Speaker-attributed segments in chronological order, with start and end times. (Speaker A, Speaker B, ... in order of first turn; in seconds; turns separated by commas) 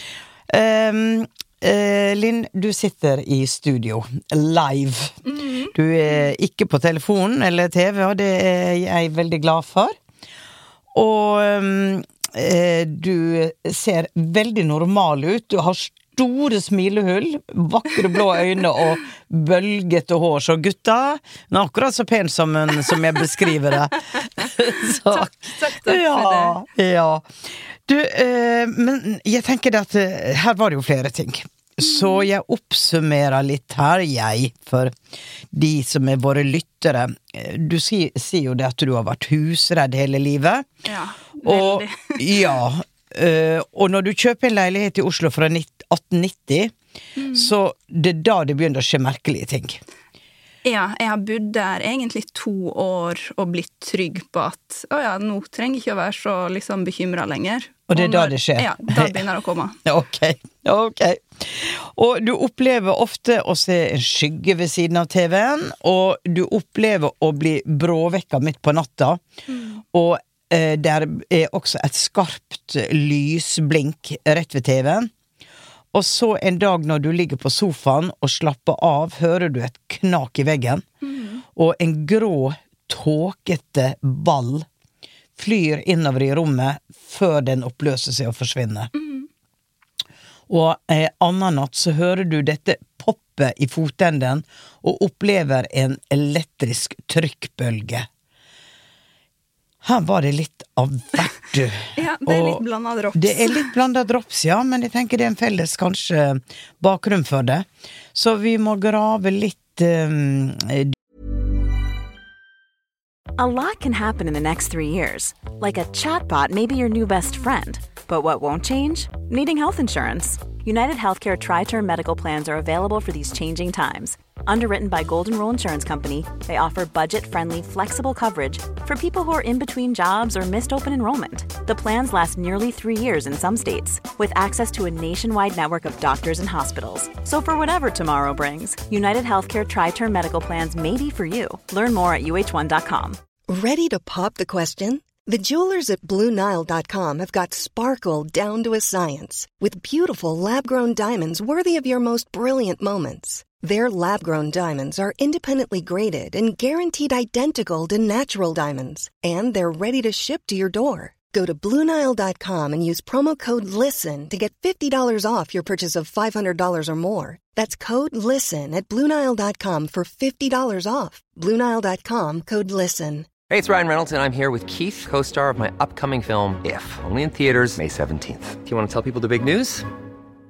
Speaker A: 0.5-5.2, Speaker B: 5.2-6.2, Speaker A: 5.7-9.9, Speaker A: 10.9-27.3, Speaker B: 24.7-26.6, Speaker A: 27.9-34.9, Speaker B: 31.8-32.3, Speaker A: 35.5-40.7, Speaker B: 40.8-42.4, Speaker A: 41.4-46.7, Speaker B: 47.2-47.5, Speaker A: 47.3-49.8, Speaker B: 50.6-59.8, Speaker A: 57.9-59.2, Speaker A: 59.9-69.2, Speaker B: 69.5-69.8, Speaker A: 69.9-75.1, Speaker A: 75.9-80.8, Speaker B: 81.0-81.4, Speaker A: 81.6-84.7, Speaker A: 85.4-88.9, Speaker B: 88.9-89.3, Speaker A: 90.5-98.1, Speaker A: 99.8-102.6, Speaker B: 102.0-103.7, Speaker A: 103.2-110.9, Speaker C: 113.4-143.2, Speaker D: 143.5-173.3, Speaker E: 173.5-179.9